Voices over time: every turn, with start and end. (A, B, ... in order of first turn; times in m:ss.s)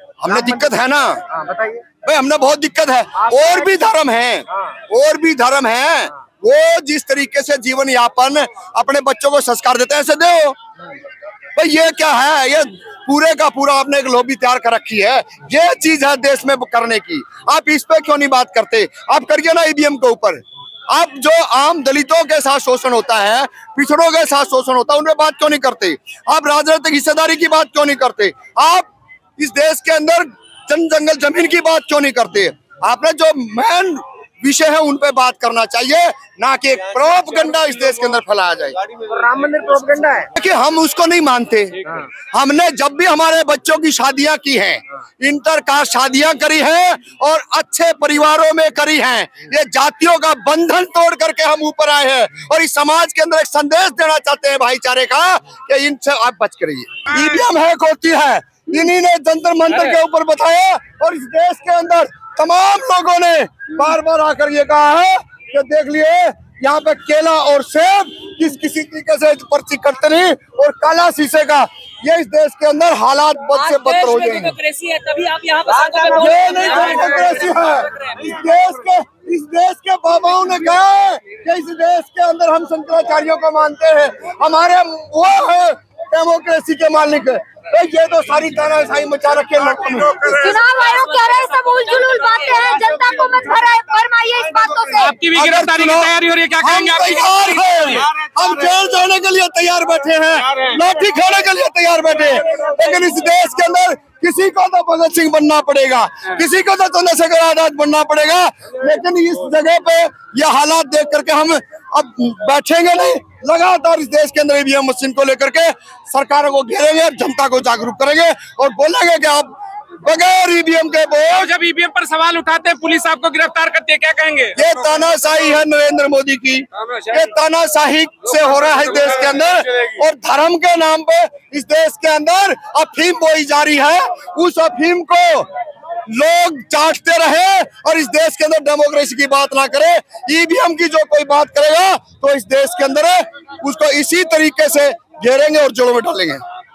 0:00.2-0:01.3 A
0:01.4-0:01.8 B
0:02.0-0:10.6 A
0:11.5-0:38.9 A
0:39.1-0:40.2 B
0:40.2-1:14.6 A
0:59.7-0:59.9 B
1:13.5-1:18.2 C
1:15.8-1:17.3 B
1:16.1-1:30.5 A
1:30.3-1:35.2 D
1:30.5-1:33.0 C
1:34.9-1:38.3 B
1:35.3-2:01.5 A
1:40.4-1:40.8 B
2:01.3-2:05.4 B
2:04.5-2:15.5 A
2:06.8-2:07.1 B
2:08.7-2:09.4 B
2:16.1-2:26.4 A